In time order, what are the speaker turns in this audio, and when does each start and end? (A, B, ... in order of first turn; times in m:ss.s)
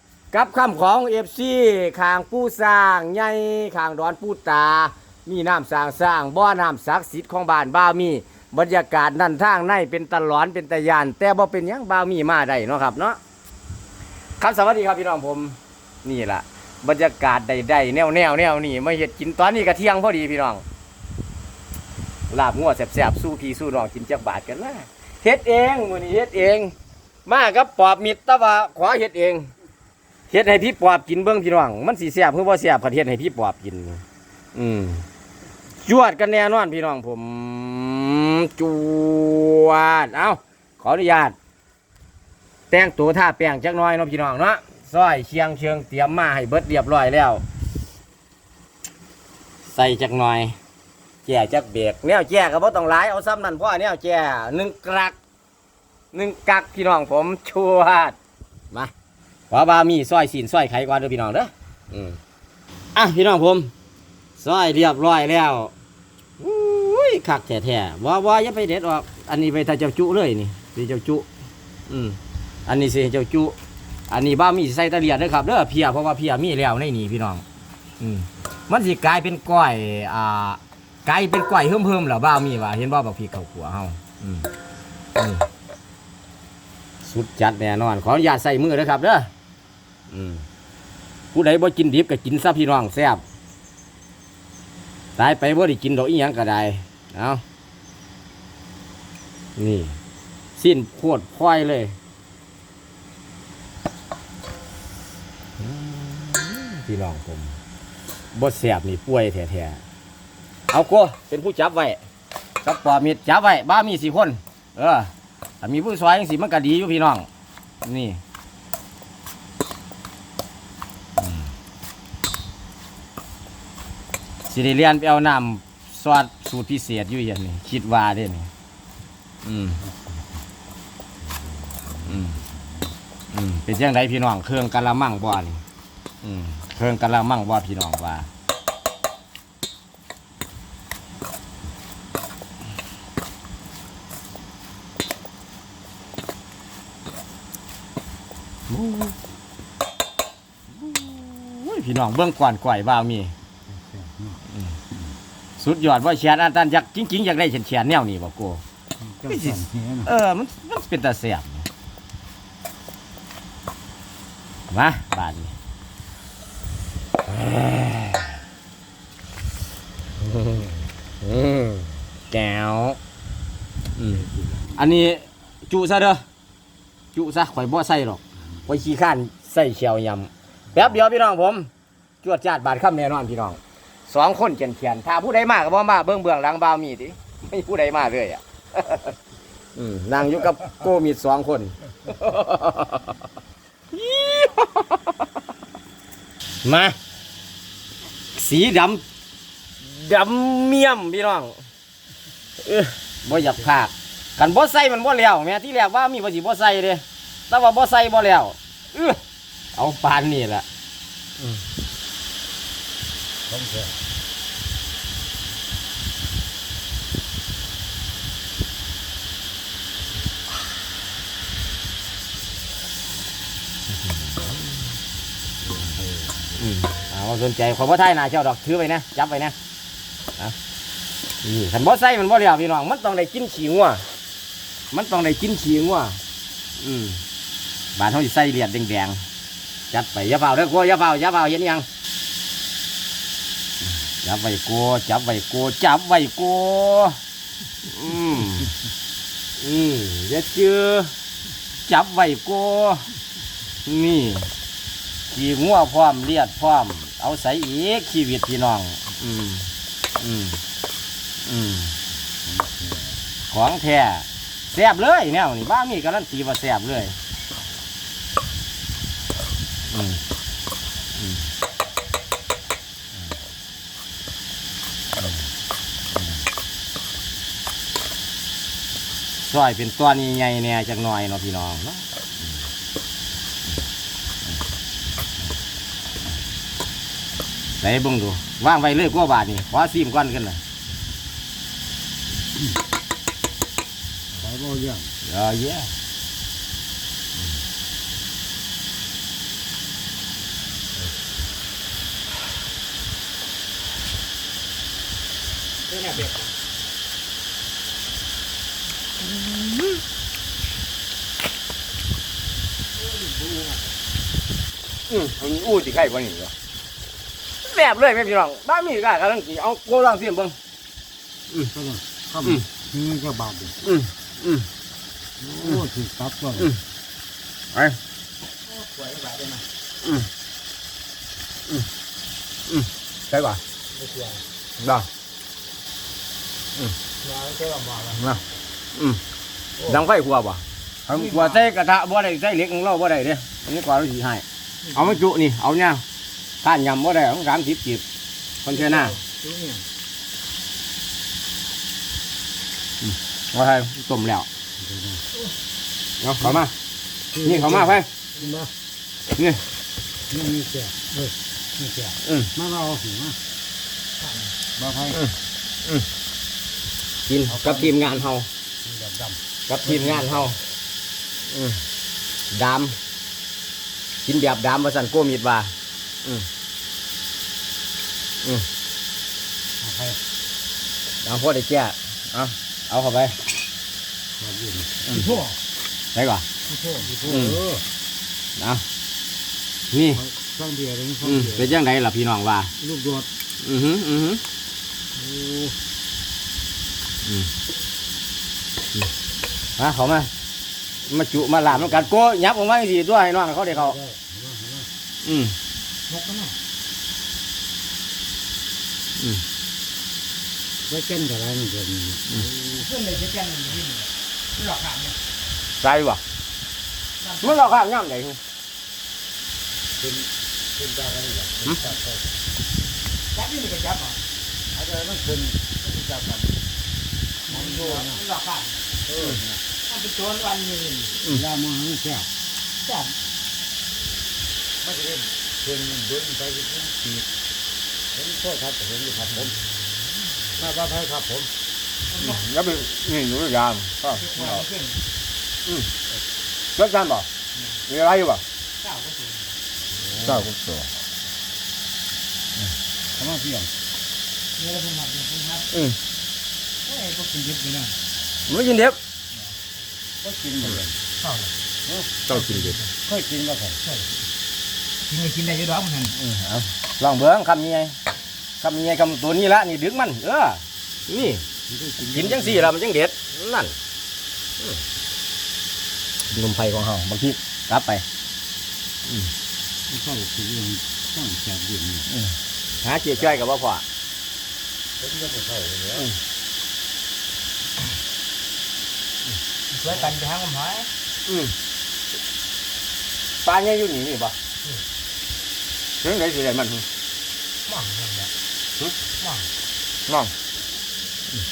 0:00.3-0:13.2 A
0:14.4-0:20.6 A
0:22.3-0:26.7 A
0:27.2-0:29.5 A
0:30.3-0:34.0 A
0:34.5-0:35.0 A
0:35.8-0:41.4 A
0:42.7-0:47.4 A
0:49.7-0:50.6 A
0:51.2-0:55.1 A
0:56.1-0:58.2 A
0:59.5-1:02.2 A
1:02.9-1:03.7 A
1:04.4-1:05.7 A
1:06.4-1:11.2 A
1:11.9-1:13.5 A
1:14.1-1:17.4 A
1:18.0-1:24.5 A
1:25.2-1:25.4 A
1:27.0-1:29.3 A
1:30.1-1:30.4 A
1:31.3-1:33.2 A
1:35.2-1:37.4 A
1:39.6-1:40.0 A
1:40.6-1:42.0 A
1:45.6-1:47.6 A
1:48.3-1:49.8 A
1:50.7-1:52.0 A
1:52.6-1:57.3 A
1:57.8-1:58.2 A
2:01.2-2:01.5 A
2:04.5-2:08.5 A
2:09.4-2:09.8 A
2:09.8-2:10.4 B
2:11.2-2:12.9 B
2:12.0-2:12.4 A
2:13.3-2:15.6 A
2:16.2-2:18.3 A
2:28.7-2:29.1 A
2:30.8-2:33.3 A
2:33.7-2:34.4 B
2:35.6-2:38.6 A
2:39.0-2:40.1 B
2:39.3-2:41.7 A
2:44.7-2:45.5 A
2:47.2-2:48.4 A
2:50.2-2:53.0 A
2:54.0-2:54.2 A
2:54.1-2:55.1 B
2:54.8-2:56.2 A
2:57.1-3:01.7 A
3:02.2-3:09.2 A
3:09.8-3:13.2 A
3:13.9-3:15.1 A
3:16.6-3:17.0 A
3:18.3-3:19.0 A
3:19.8-3:21.6 A
3:22.6-3:29.2 A
3:23.3-3:23.7 B
3:29.7-3:30.6 A
3:33.5-3:34.0 B
3:44.1-3:44.6 A
3:45.6-3:46.6 B
3:46.6-3:49.5 A
3:51.4-3:54.0 A
3:54.9-3:56.2 A
3:56.8-3:57.2 A
3:58.0-3:59.2 A
3:59.9-4:01.8 A
4:04.2-4:07.2 A
4:07.8-4:08.7 A
4:09.6-4:11.1 A
4:11.8-4:13.1 A
4:13.8-4:14.5 A
4:15.3-4:20.6 A
4:21.4-4:21.9 A
4:22.4-4:23.2 B
4:23.5-4:27.2 A
4:29.9-4:30.2 A
4:31.2-4:31.4 A
4:39.4-4:42.0 A
4:47.8-4:50.6 A
4:54.4-4:55.1 B
4:55.2-4:55.9 A
5:05.9-5:06.5 C
5:09.2-5:10.0 A
5:13.0-5:13.9 C
5:15.1-5:16.5 A
5:17.6-5:20.6 A
5:21.7-5:23.8 B
5:23.8-5:24.7 A
5:25.4-5:26.7 B
5:28.6-5:29.6 C
5:32.7-5:33.6 A
5:33.9-5:34.4 C
5:34.8-5:35.1 A
5:37.2-5:38.2 C
5:38.1-5:38.4 A
5:38.9-5:39.2 A
5:39.8-5:46.0 A
5:41.1-5:41.7 C
5:44.8-5:45.2 C
5:46.6-5:48.0 A
5:48.6-5:49.2 A
5:48.7-5:49.8 C
5:53.0-5:54.5 A
5:54.8-5:55.2 B
5:56.2-5:56.7 A
5:57.3-5:58.7 B
5:57.4-5:58.1 A
5:59.4-5:59.6 A
6:00.3-6:03.4 B
6:02.2-6:02.5 A
6:04.2-6:04.5 C
6:04.8-6:05.2 B
6:07.3-6:08.5 A
6:07.5-6:08.1 B
6:08.8-6:10.5 B
6:09.7-6:10.6 A
6:12.5-6:13.0 A
6:14.2-6:15.7 A
6:19.8-6:20.2 B
6:21.2-6:23.4 A
6:24.4-6:25.4 B
6:25.0-6:25.4 A
6:25.1-6:25.5 C
6:26.1-6:26.4 A
6:26.7-6:27.8 B
6:27.2-6:27.6 A
6:28.6-6:28.8 A
6:29.9-6:30.2 A
6:30.1-6:31.8 B
6:31.2-6:32.7 A
6:32.8-6:33.3 B
6:33.6-6:34.4 A
6:35.2-6:35.8 B
6:37.2-6:37.5 A
6:39.8-6:40.3 A
6:41.0-6:44.0 A
6:41.7-6:42.1 B
6:43.7-6:44.9 B
6:45.2-6:45.6 A
6:46.1-6:46.6 C
6:49.2-6:49.4 A
6:50.9-6:52.9 B
6:52.7-6:55.2 C
6:55.8-6:56.2 A
6:57.2-6:57.8 C
6:57.4-6:58.4 A
7:00.0-7:02.2 B
7:03.3-7:04.2 C
7:04.7-7:06.6 B
7:07.4-7:08.9 C
7:07.5-7:08.2 B
7:09.1-7:09.6 B
7:09.8-7:11.2 C
7:11.2-7:12.3 B
7:12.8-7:13.1 C
7:14.8-7:17.3 B
7:18.1-7:19.5 B
7:20.6-7:21.5 B
7:22.1-7:22.4 C
7:22.2-7:24.6 A
7:24.1-7:25.0 C
7:26.8-7:27.3 A
7:27.5-7:27.8 C
7:27.9-7:28.4 A
7:28.8-7:29.6 C
7:29.9-7:30.5 B
7:30.2-7:30.9 A
7:33.1-7:33.7 B
7:34.6-7:35.7 C
7:35.7-7:36.0 A
7:36.8-7:38.0 C
7:38.5-7:39.0 A
7:40.2-7:41.0 B
7:41.2-7:41.5 C
7:41.8-7:42.1 B
7:42.3-7:42.8 A
7:42.3-7:42.9 C
7:43.0-7:43.8 B
7:43.8-7:44.1 C
7:45.0-7:46.2 C
7:46.1-7:48.0 A
7:48.6-7:51.4 A
7:51.6-7:52.7 B
7:52.0-7:53.7 A
7:56.3-7:58.0 A
7:59.9-8:02.1 B
8:02.1-8:03.8 A
8:05.0-8:06.1 B
8:09.7-8:10.9 C
8:11.3-8:11.5 A
8:13.4-8:14.3 A
8:16.0-8:16.8 A
8:17.6-8:18.3 C
8:19.2-8:19.5 C
8:20.1-8:20.3 A